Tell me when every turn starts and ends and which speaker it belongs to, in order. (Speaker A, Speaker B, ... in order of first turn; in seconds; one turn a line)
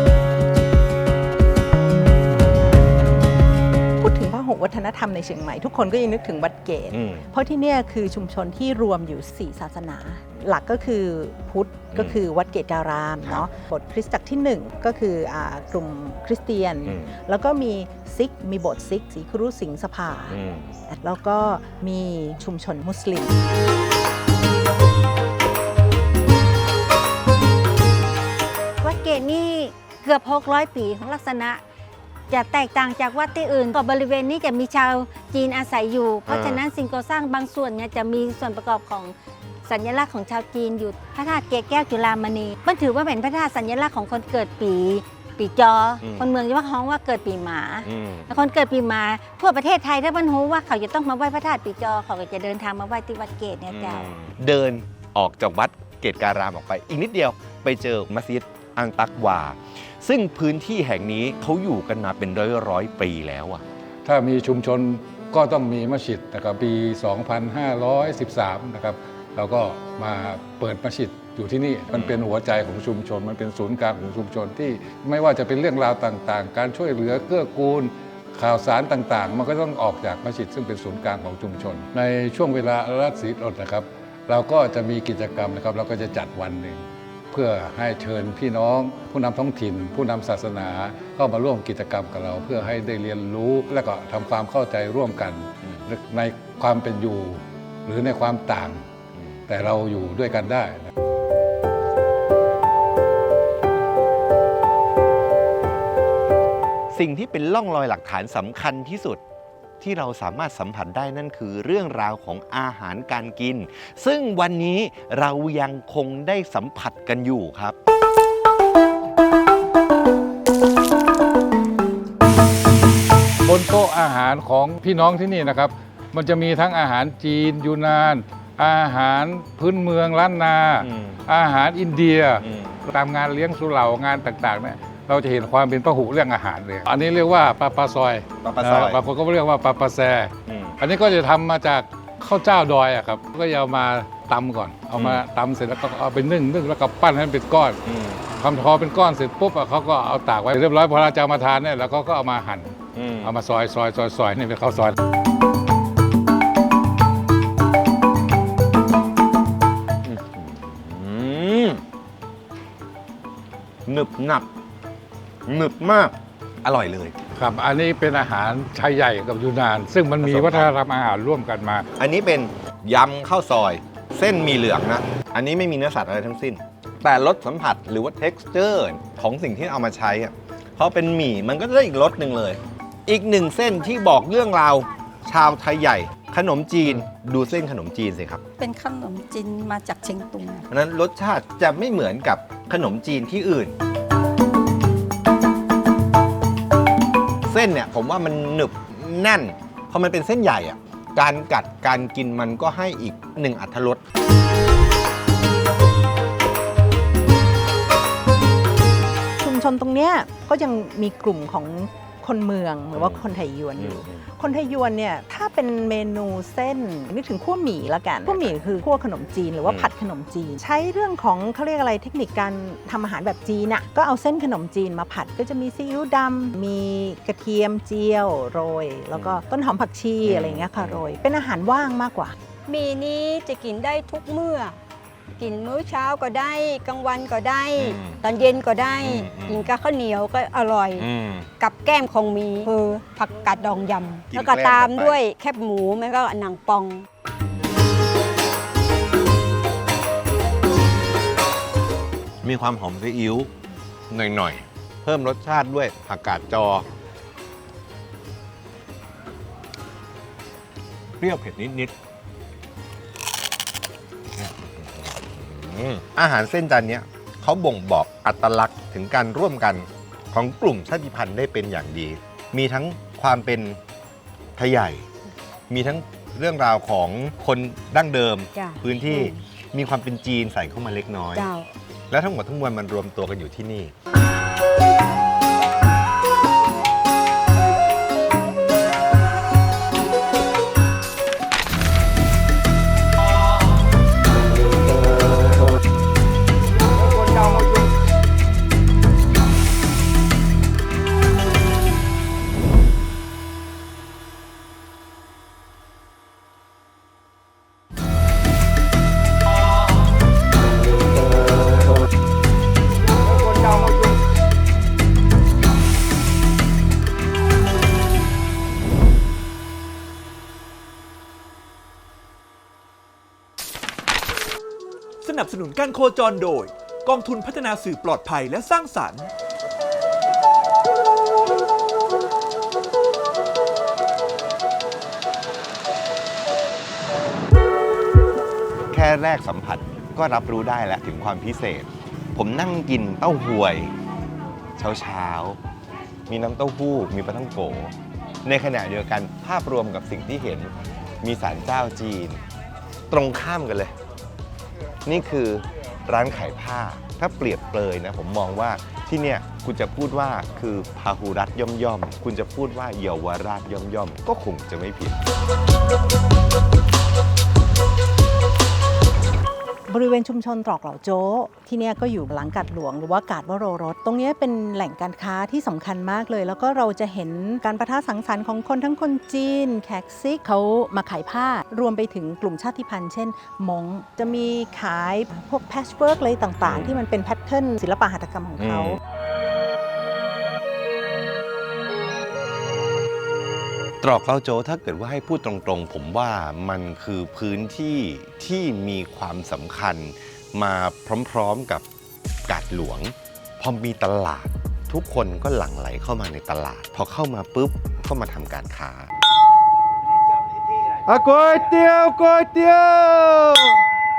Speaker A: 4.0-20.4
Speaker B: 6.9-7.2
Speaker B: 11.9-12.2
Speaker B: 16.9-17.1
Speaker B: 20.3-20.8
Speaker A: 20.9-23.3
Speaker C: 28.8-31.6
Speaker C: 32.3-39.1
Speaker B: 36.3-36.6
Speaker C: 39.6-54.1
Speaker B: 46.0-46.3
Speaker B: 47.8-48.3
Speaker B: 53.7-63.6
Speaker D: 64.0-98.8
Speaker B: 71.9-72.2
Speaker D: 99.5-100.9
Speaker B: 106.9-109.2
Speaker B: 109.8-117.8
Speaker D: 123.4-155.0
Speaker B: 130.8-131.2
Speaker B: 132.4-132.8
Speaker B: 138.4-139.0
Speaker B: 140.5-140.8
Speaker B: 144.9-145.2
Speaker B: 147.8-148.2
Speaker B: 152.9-153.3
Speaker B: 160.0-161.8
Speaker B: 163.8-164.5
Speaker B: 165.4-167.2
Speaker D: 167.4-171.8
Speaker B: 170.2-170.7
Speaker B: 172.0-188.4
Speaker E: 188.6-190.6
Speaker B: 190.7-193.8
Speaker B: 197.4-204.0
Speaker A: 209.4-232.3
Speaker B: 212.9-213.2
Speaker B: 213.8-214.2
Speaker B: 219.6-219.9
Speaker B: 229.1-229.4
Speaker B: 230.2-231.0
Speaker F: 232.7-234.8
Speaker F: 235.4-247.1
Speaker B: 237.8-238.2
Speaker B: 239.0-239.7
Speaker B: 241.0-241.5
Speaker B: 244.3-245.2
Speaker B: 252.4-253.5
Speaker B: 254.1-256.9
Speaker B: 261.2-261.9
Speaker B: 264.3-273.8
Speaker B: 274.6-275.1
Speaker B: 275.7-281.5
Speaker F: 278.5-279.3
Speaker F: 281.3-281.7
Speaker B: 282.1-283.9
Speaker G: 325.2-329.3
Speaker B: 338.9-343.9
Speaker B: 344.8-345.6
Speaker B: 346.3-347.9
Speaker B: 348.4-352.4
Speaker B: 353.1-353.9
Speaker B: 355.0-365.2
Speaker A: 369.9-389.0
Speaker B: 386.6-387.0
Speaker B: 388.6-389.0
Speaker B: 394.0-401.8
Speaker B: 402.5-409.1
Speaker H: 411.1-413.8